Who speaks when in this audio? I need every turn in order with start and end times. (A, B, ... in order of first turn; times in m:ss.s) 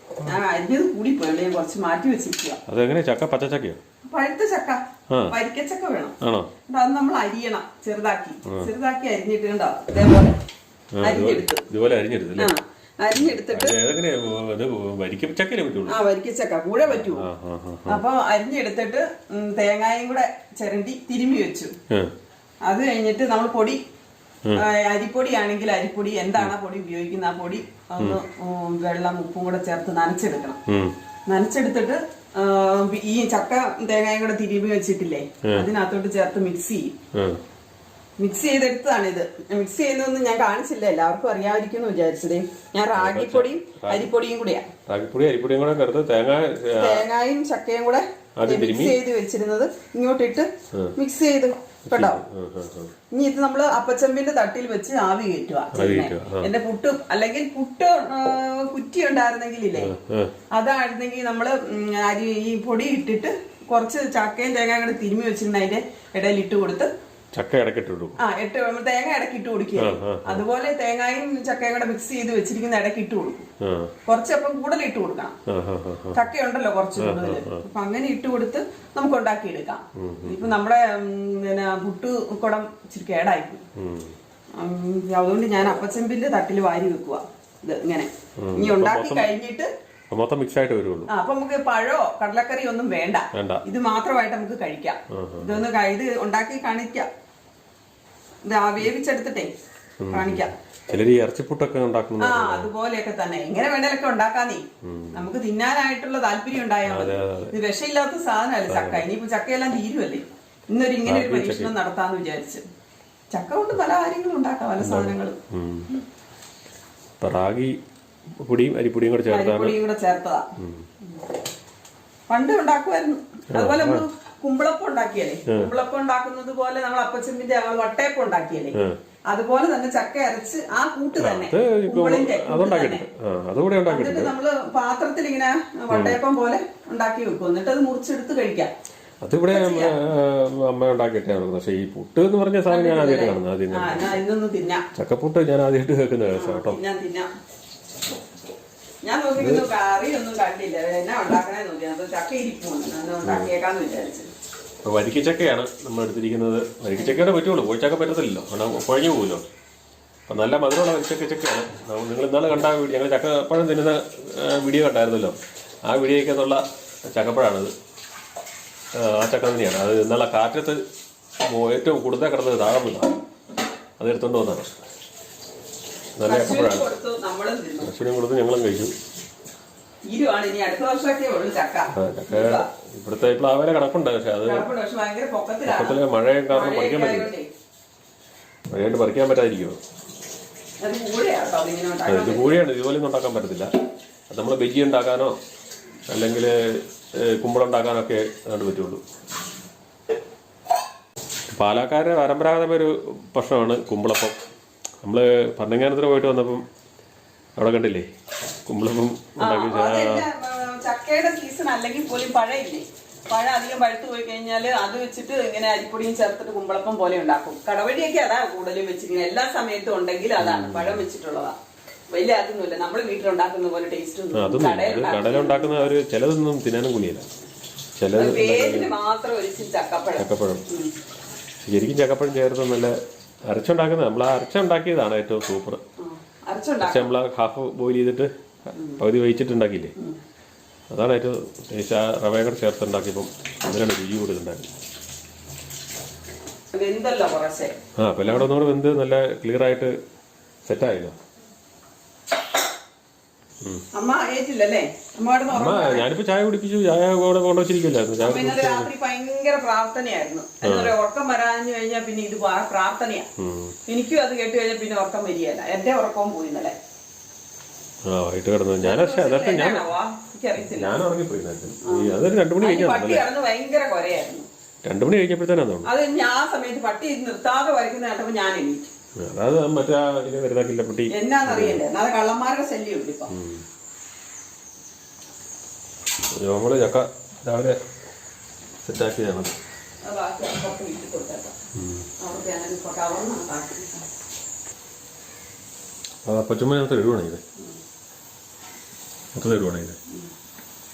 0:00.3-0:02.6 A
0:02.7-0:03.8 B
0:04.1-0:06.2 A
0:05.1-0:05.3 B
0:06.2-0:06.5 B
0:06.7-0:10.4 A
0:10.9-0:12.5 B
0:11.0-0:11.6 A
0:12.4-0:13.8 A
0:13.1-0:16.0 B
0:15.9-0:17.3 A
0:16.9-0:18.0 B
0:17.9-0:21.7 A
0:22.6-0:23.8 A
0:24.6-0:30.6 A
0:30.7-0:30.9 B
0:31.3-0:36.9 A
0:37.1-0:37.4 B
0:38.2-0:44.7 A
0:43.0-0:44.1 B
0:44.9-0:47.0 B
0:46.8-0:52.2 A
0:48.4-0:49.0 B
0:51.9-0:52.9 B
0:53.1-0:59.9 A
0:55.8-0:56.5 B
0:59.8-1:00.3 B
1:00.5-1:06.9 A
1:07.3-1:08.2 B
1:08.2-1:13.5 A
1:09.8-1:10.4 B
1:13.6-1:13.9 B
1:14.1-1:15.4 A
1:15.5-1:16.2 B
1:16.1-1:23.6 A
1:17.0-1:17.6 B
1:20.0-1:20.5 B
1:23.8-1:24.1 B
1:24.6-1:29.7 A
1:28.4-1:29.3 B
1:30.1-1:31.1 B
1:31.1-1:37.1 A
1:33.3-1:33.6 B
1:35.1-1:35.6 B
1:38.5-1:39.5 A
1:40.0-1:42.7 B
1:40.1-1:40.5 A
1:42.2-1:52.6 A
1:44.8-1:45.3 B
1:46.9-1:47.5 B
1:48.7-1:49.0 B
1:51.0-1:51.7 B
1:53.3-1:55.4 A
1:54.8-1:55.9 B
1:57.2-1:57.8 B
1:58.4-1:59.8 B
1:59.3-2:00.5 A
2:00.6-2:00.8 B
2:02.3-2:08.8 A
2:03.5-2:04.0 B
2:09.3-2:13.0 A
2:11.2-2:14.3 B
2:13.9-2:18.7 A
2:15.9-2:16.2 B
2:19.2-2:24.2 B
2:19.5-2:20.0 A
2:22.7-2:24.9 A
2:25.0-2:26.8 B
2:26.3-2:27.3 A
2:29.0-2:34.3 A
2:29.4-2:29.6 B
2:34.8-2:39.4 B
2:37.0-2:37.2 A
2:40.3-2:47.7 B
2:48.9-2:50.8 B
2:51.4-2:53.1 B
2:54.0-2:54.8 B
2:56.2-2:56.8 B
2:56.3-2:57.9 A
2:57.8-2:58.9 B
3:00.1-3:02.7 A
3:02.0-3:04.7 B
3:04.4-3:06.0 A
3:05.7-3:07.3 B
3:06.5-3:07.5 A
3:08.7-3:09.8 B
3:10.8-3:12.6 A
3:12.1-3:13.7 B
3:14.3-3:15.4 B
3:16.1-3:19.0 B
3:21.5-3:24.4 B
3:25.0-3:26.7 B
3:27.6-3:28.1 B
3:28.7-3:30.2 B
3:29.4-3:41.6 A
3:40.4-3:41.0 B
3:42.1-3:45.9 A
3:44.3-3:47.3 B
3:48.0-3:48.9 B
3:48.2-3:50.9 A
3:50.2-3:50.6 B
3:51.6-3:55.8 B
3:56.0-3:57.1 A
3:56.8-3:59.9 B
3:58.8-3:59.0 A
4:00.9-4:04.7 B
4:06.7-4:08.5 A
4:08.0-4:10.0 B
4:10.6-4:11.2 B
4:13.9-4:16.1 A
4:15.5-4:18.9 B
4:18.2-4:23.3 A
4:20.6-4:20.9 B
4:23.4-4:23.8 B
4:23.9-4:26.8 A
4:28.1-4:29.8 B
4:28.8-4:31.0 A
4:30.7-4:33.2 B
4:31.8-4:34.5 A
4:34.8-4:35.9 B
4:35.8-4:38.9 A
4:39.2-4:41.8 B
4:41.1-4:43.3 A
4:43.3-4:43.6 B
4:46.3-4:47.8 B
4:48.8-4:49.5 B
4:50.0-4:51.6 A
4:51.8-4:52.1 B
4:52.2-4:54.0 A
4:56.2-4:57.4 B
4:59.4-5:00.0 B